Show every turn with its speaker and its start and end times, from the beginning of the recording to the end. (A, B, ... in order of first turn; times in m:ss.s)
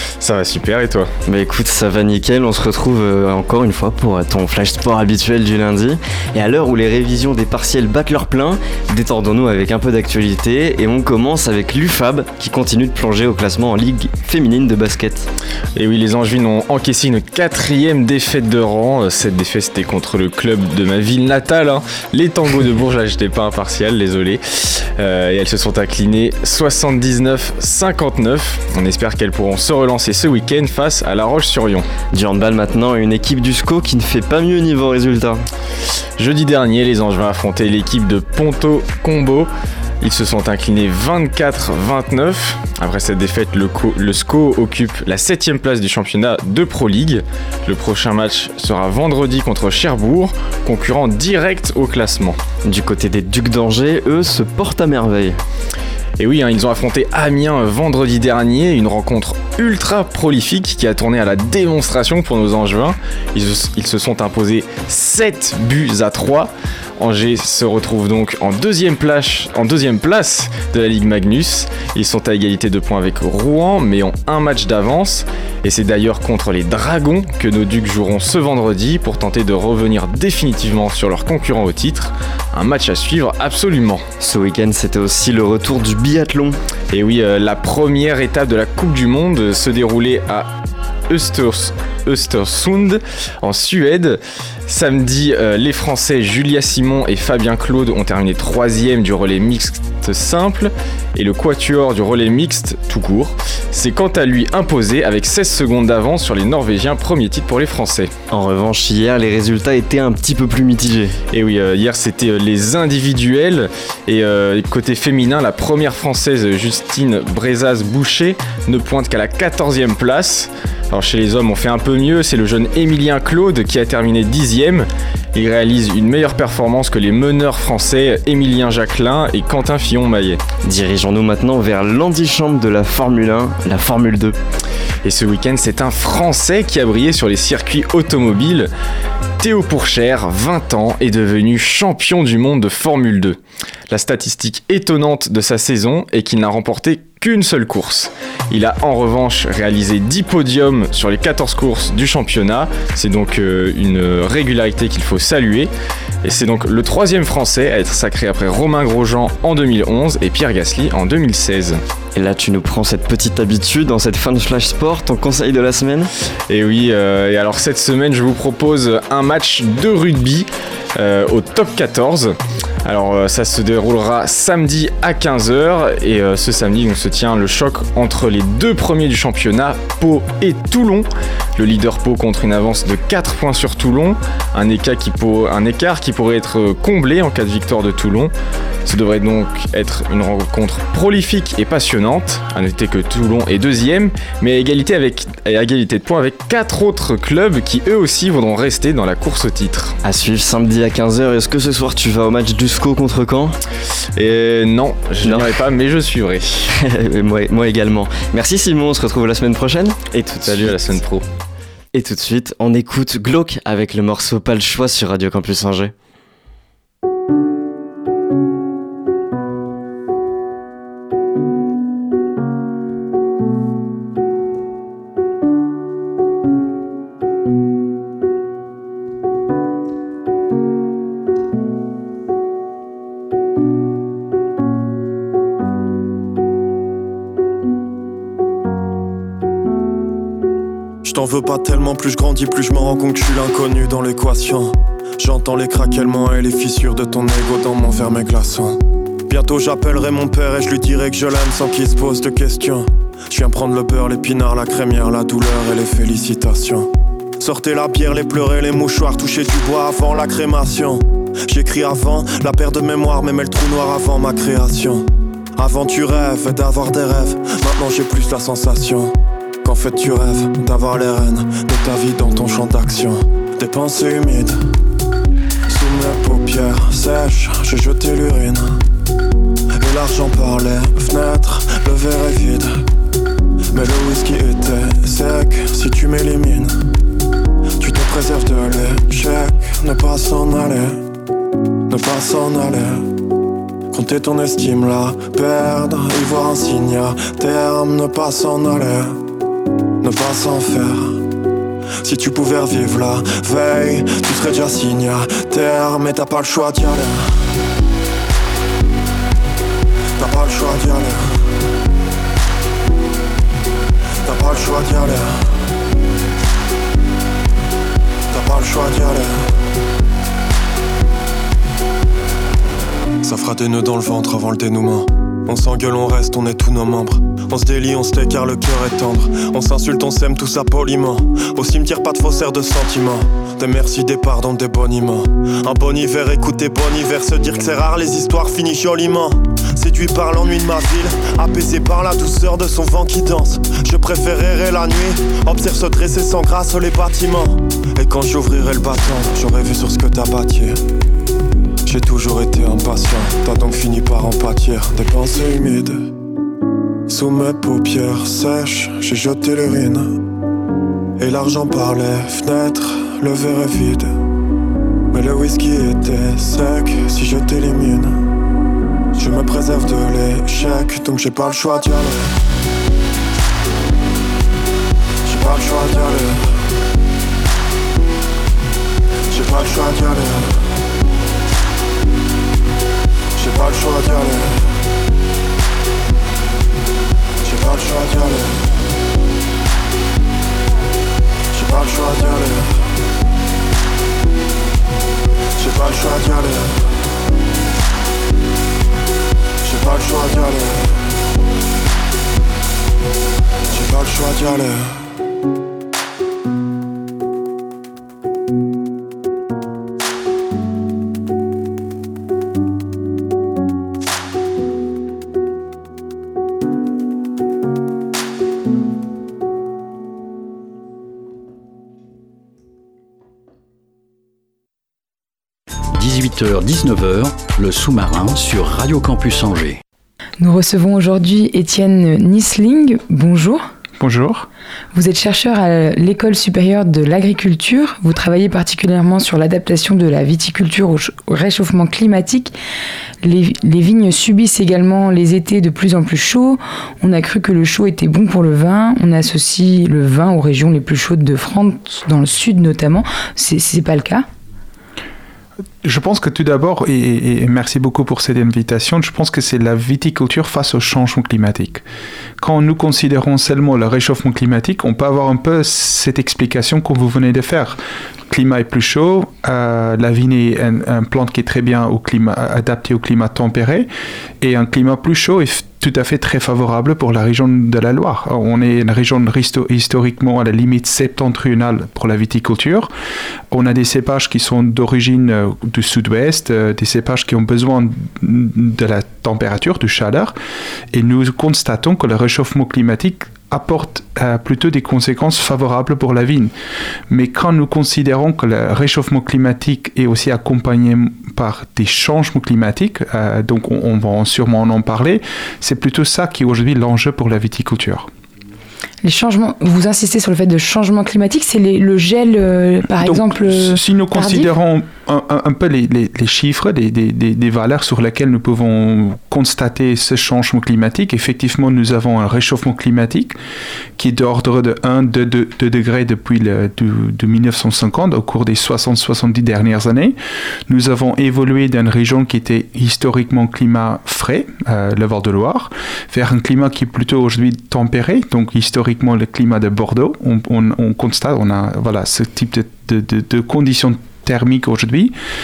0:00.2-0:01.1 A
0:01.3-0:15.3 B
0:15.8-0:31.9 A
0:32.1-0:35.4 B
0:36.2-0:39.5 A
0:40.0-0:52.4 A
0:52.6-0:55.4 B
0:56.2-1:24.0 A
1:24.2-1:26.6 B
1:26.9-1:30.5 A
1:31.1-1:48.1 A
1:48.3-1:51.2 B
1:51.3-2:10.4 A
2:10.6-2:14.4 B
2:15.0-2:18.7 A
2:19.4-2:35.7 A
2:36.2-2:41.8 A
2:42.2-2:46.1 B
2:46.5-3:08.3 A
3:08.8-3:20.0 A
3:20.0-3:23.6 B
3:24.2-3:26.7 A
3:25.2-3:25.5 B
3:26.8-3:30.9 B
3:30.4-3:31.3 A
3:31.9-3:35.9 B
4:01.0-4:16.9 C
4:17.4-4:34.6 C
4:35.7-4:38.8 C
4:39.8-4:42.8 C
4:43.7-4:46.8 C
4:47.8-4:51.0 C
4:51.9-4:53.1 C
4:53.9-4:59.2 C
5:00.0-5:01.2 C
5:02.0-5:07.5 C
5:10.2-5:11.5 C
5:14.2-5:15.6 C
5:18.3-5:19.5 C
5:23.2-5:50.8 C
5:51.8-5:56.1 C
5:57.1-6:00.2 C
6:01.2-6:04.2 C
6:05.1-6:08.3 C
6:09.1-6:12.4 C
6:15.2-6:16.6 C
6:19.3-6:20.7 C
6:23.4-6:24.8 C
6:27.4-6:28.8 C
6:31.5-6:32.9 C
6:35.6-6:36.8 C
6:39.6-6:41.1 C
6:43.7-6:45.1 C
7:05.9-7:09.8 D
7:10.4-7:13.6 E
7:14.0-7:14.5 F
7:14.9-7:22.6 E
7:23.2-7:34.3 E
7:35.8-7:41.8 F
7:42.4-7:53.9 F
7:54.4-8:02.9 F
8:03.5-8:10.4 F
8:10.9-8:16.5 F
8:17.1-8:28.1 F
8:29.0-8:34.5 E
8:33.0-8:43.4 F
8:44.0-8:50.2 F
8:50.7-9:05.1 F